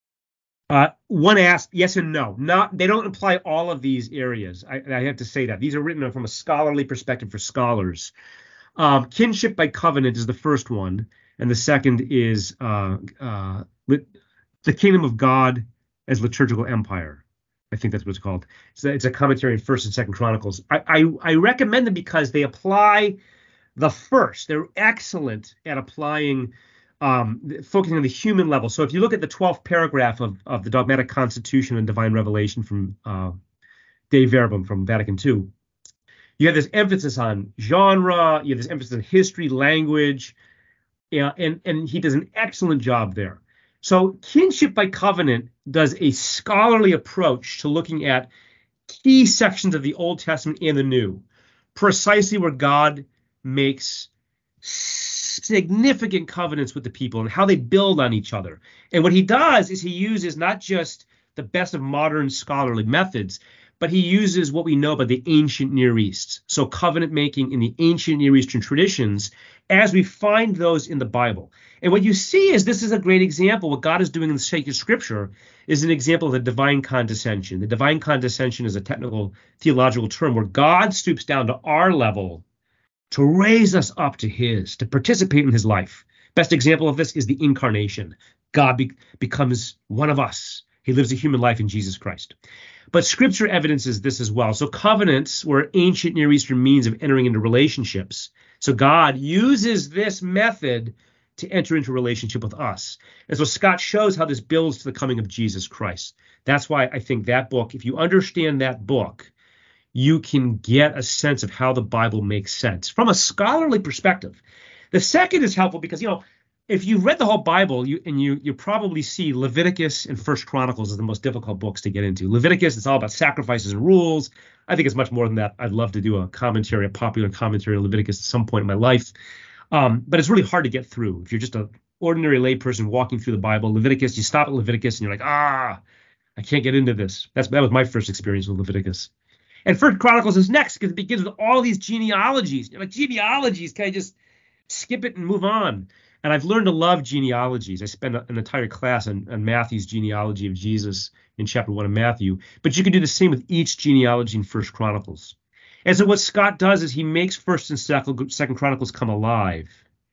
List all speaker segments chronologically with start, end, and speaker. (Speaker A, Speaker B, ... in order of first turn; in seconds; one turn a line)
Speaker A: 0.7-8.1
Speaker A: 8.8-14.1
Speaker A: 14.7-23.2
Speaker A: 23.8-33.4
Speaker A: 34.1-35.5
Speaker A: 36.4-40.4
Speaker A: 41.1-48.3
Speaker A: 48.9-54.1
Speaker A: 54.6-82.4
Speaker A: 83.1-92.4
Speaker A: 92.9-109.3
Speaker A: 109.9-129.2
Speaker A: 129.7-135.8
Speaker A: 136.4-139.1
Speaker A: 139.7-144.2
Speaker A: 144.7-155.3
Speaker A: 155.9-159.8